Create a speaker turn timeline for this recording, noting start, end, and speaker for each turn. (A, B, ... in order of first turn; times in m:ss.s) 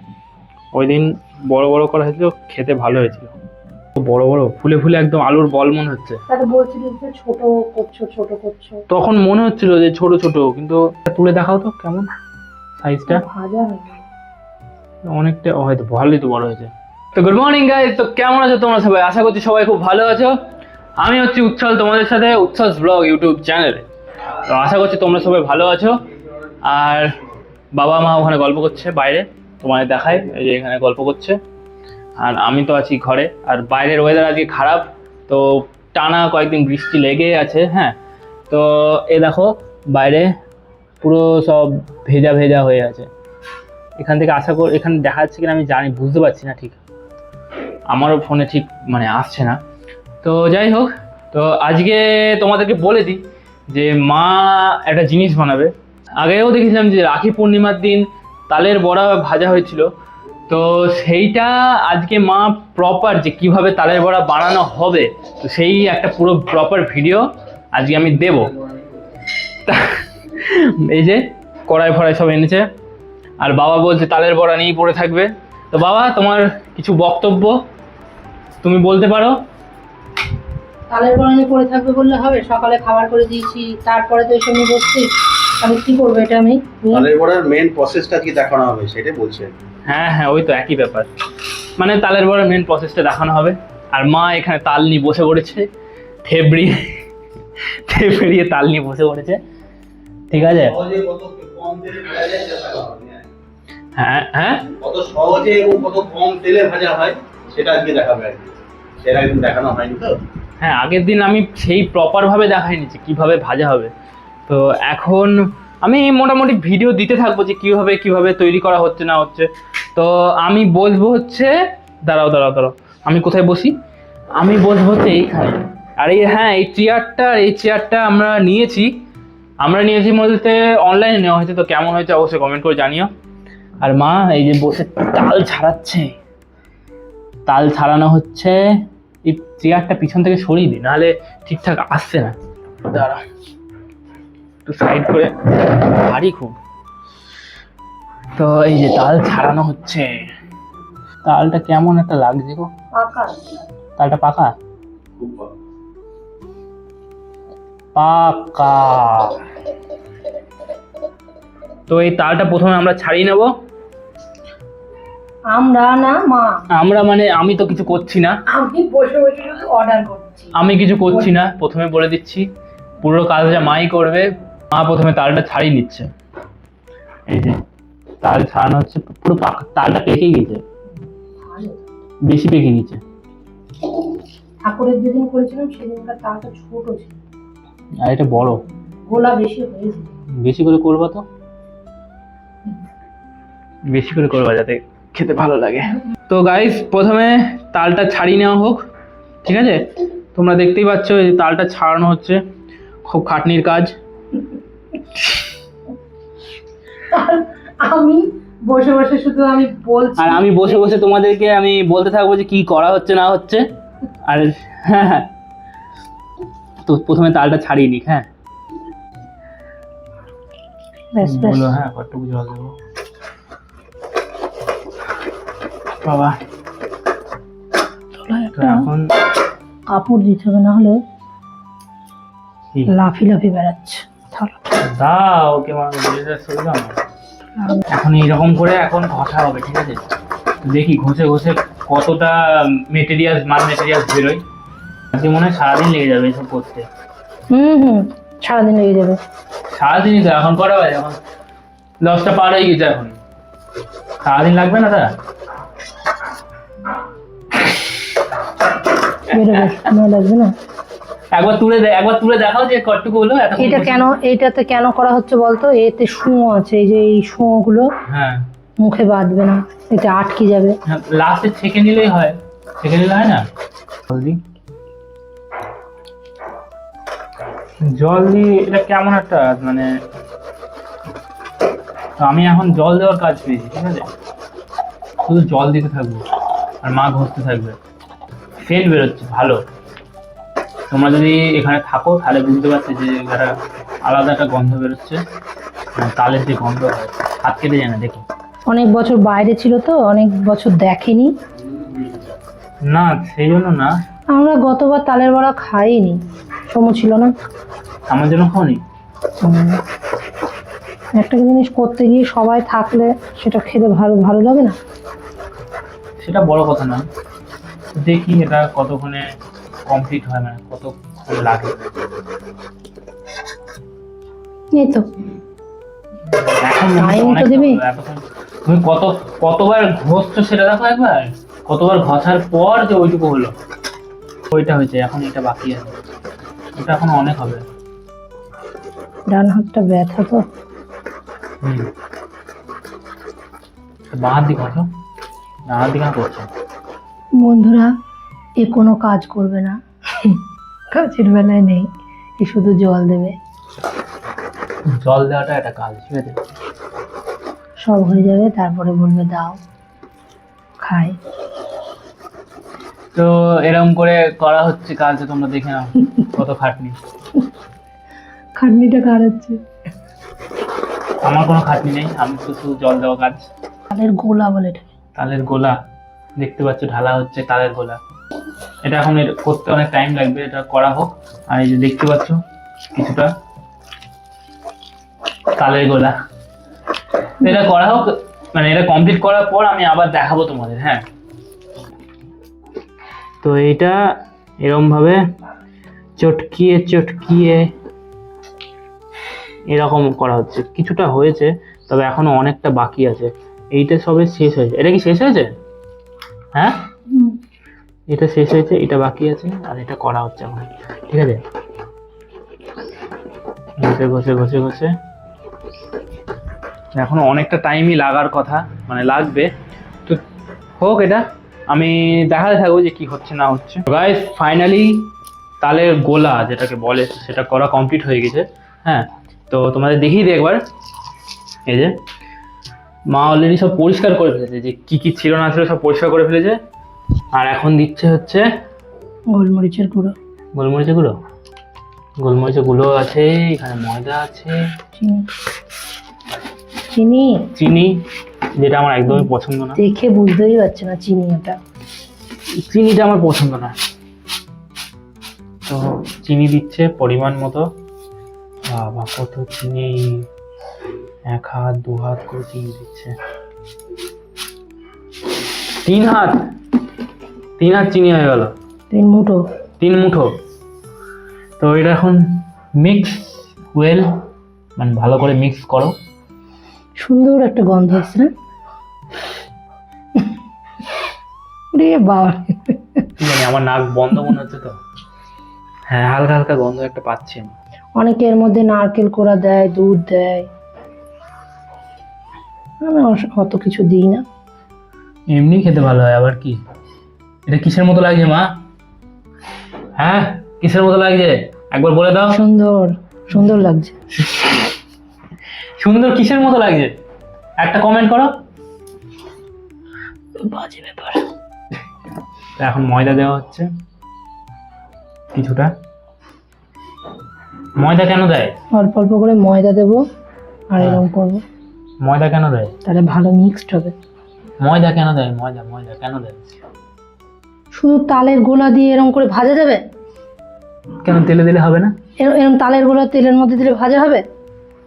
0:00.7-0:03.3 A
0:04.0-0:06.2 A
0:06.3-0:08.8 B
0:08.9-0:12.1 A
0:12.8-0:13.2 A
0:13.1-0:14.0 B
0:15.0-0:20.3 A
0:21.0-0:26.0 A
0:26.6-0:27.1 A
0:27.7-0:31.4 A
0:32.2-0:37.9 A
0:38.5-0:40.3 A
0:41.0-0:43.1 A
0:44.0-0:46.8 A
0:47.9-0:49.6 A
0:50.2-0:59.9 A
1:00.5-1:08.5 A
1:09.6-1:12.6 A
1:13.4-1:17.6 A
1:18.6-1:19.4 A
1:20.9-1:27.1 B
1:26.9-1:29.5 C
1:29.8-1:31.1 A
1:31.8-1:35.7 A
1:36.2-1:37.0 A
1:37.6-1:39.4 A
1:40.3-1:40.8 A
1:40.6-1:43.2 C
1:44.0-1:44.7 A
1:44.8-1:50.2 C
1:50.6-1:53.9 A
1:54.5-2:03.7 A
2:04.4-2:08.9 A
2:09.6-2:13.1 A
2:13.8-2:16.1 A
2:17.5-2:18.6 A
2:19.2-2:23.2 A
2:24.6-2:26.6 A
2:28.4-2:30.2 A
2:31.2-2:32.7 A
2:33.0-2:33.6 B
2:34.0-2:34.5 A
2:37.9-2:39.4 A
2:41.9-2:43.5 A
2:45.5-2:46.6 B
2:46.7-2:48.3 A
2:48.5-2:50.5 B
2:50.5-2:52.5 A
2:53.0-2:56.1 A
2:57.3-2:57.6 A
2:58.2-3:00.6 A
3:01.4-3:01.9 B
3:02.2-3:03.0 A
3:04.6-3:07.2 B
3:08.0-3:08.6 A
3:09.1-3:10.1 B
3:10.4-3:11.2 A
3:13.9-3:18.8 A
3:19.4-3:22.4 A
3:23.1-3:23.9 A
3:27.1-3:30.9 B
3:30.2-3:33.6 A
3:34.2-3:35.3 A
3:36.8-3:38.3 A
3:41.1-3:41.7 B
3:41.2-3:42.7 A
3:46.0-3:46.4 A
3:48.2-3:48.9 B
3:48.5-3:49.0 A
3:49.9-3:51.0 B
3:52.9-3:54.7 B
3:54.8-3:57.0 A
3:57.6-3:57.8 B
3:57.9-4:00.0 A
4:00.6-4:04.4 A
4:05.1-4:06.8 A
4:07.5-4:09.2 B
4:09.7-4:11.2 A
4:12.0-4:13.2 A
4:14.2-4:15.1 A
4:19.3-4:20.5 B
4:21.3-4:24.0 A
4:23.6-4:27.9 B
4:28.1-4:28.4 A
4:28.8-4:30.8 B
4:30.8-4:33.4 A
4:34.1-4:34.4 A
4:37.8-4:39.9 A
4:42.2-4:44.1 A
4:45.2-4:46.2 A
4:46.8-4:47.8 A
4:48.6-4:49.6 A
4:50.9-4:55.2 A
4:56.0-4:58.2 A
4:58.7-5:01.3 B
5:02.9-5:03.9 A
5:04.3-5:07.3 B
5:08.1-5:08.8 A
5:09.4-5:09.8 B
5:11.1-5:14.8 B
5:16.2-5:17.1 A
5:18.0-5:19.2 A
5:19.9-5:21.8 A
5:24.7-5:25.1 B
5:26.6-5:33.5 A
5:27.0-5:27.8 B
5:34.5-5:36.0 A
5:36.8-5:37.6 A
5:39.3-5:40.4 B
5:41.6-5:41.9 A
5:44.1-5:44.9 A
5:45.7-5:46.5 A
5:47.4-5:47.9 B
5:48.6-5:51.9 B
5:52.4-5:53.4 B
5:54.9-5:56.4 A
5:57.8-5:59.6 B
6:00.8-6:01.2 B
6:03.1-6:07.0 A
6:08.6-6:09.6 B
6:11.2-6:13.4 A
6:13.9-6:14.9 B
6:15.2-6:15.8 A
6:16.4-6:18.0 A
6:18.8-6:22.4 A
6:22.9-6:23.3 A
6:25.6-6:26.1 A
6:27.4-6:31.0 A
6:33.4-6:34.0 A
6:34.6-6:35.2 A
6:36.2-6:37.7 A
6:39.7-6:45.5 A
6:47.1-6:47.4 B
6:48.1-6:51.4 A
6:53.8-6:54.9 A
6:56.9-6:59.5 A
7:00.8-7:05.1 A
7:05.6-7:10.6 A
7:11.7-7:11.9 A
7:13.1-7:16.6 A
7:17.3-7:18.4 A
7:19.3-7:20.1 B
7:20.5-7:21.2 A
7:22.2-7:24.6 A
7:25.0-7:25.3 B
7:26.9-7:27.5 B
7:27.5-7:28.0 A
7:28.6-7:29.8 A
7:29.1-7:31.6 B
7:32.6-7:33.8 A
7:35.7-7:37.7 A
7:38.7-7:40.3 A
7:41.3-7:43.1 A
7:45.8-7:46.4 A
7:47.6-7:48.5 A
7:48.9-7:49.4 B
7:49.8-7:50.3 A
7:51.6-7:54.2 A
7:54.8-7:55.9 A
7:57.0-7:58.3 B
8:01.7-8:03.0 B
8:03.2-8:04.8 A
8:05.9-8:07.5 A
8:08.0-8:10.5 B
8:12.8-8:14.2 B
8:15.3-8:16.6 A
8:17.5-8:18.5 A
8:20.0-8:22.4 A
8:22.3-8:23.9 B
8:24.2-8:24.6 A
8:25.8-8:26.9 A
8:27.6-8:28.3 A
8:30.4-8:31.2 B
8:32.6-8:33.7 A
8:35.3-8:35.7 A
8:37.8-8:38.5 A
8:38.7-8:40.0 B
8:40.7-8:41.4 B
8:42.0-8:42.7 A
8:42.8-8:43.9 B
8:44.6-8:46.4 A
8:47.8-8:49.8 B
8:51.0-8:51.9 A
8:52.2-8:54.2 B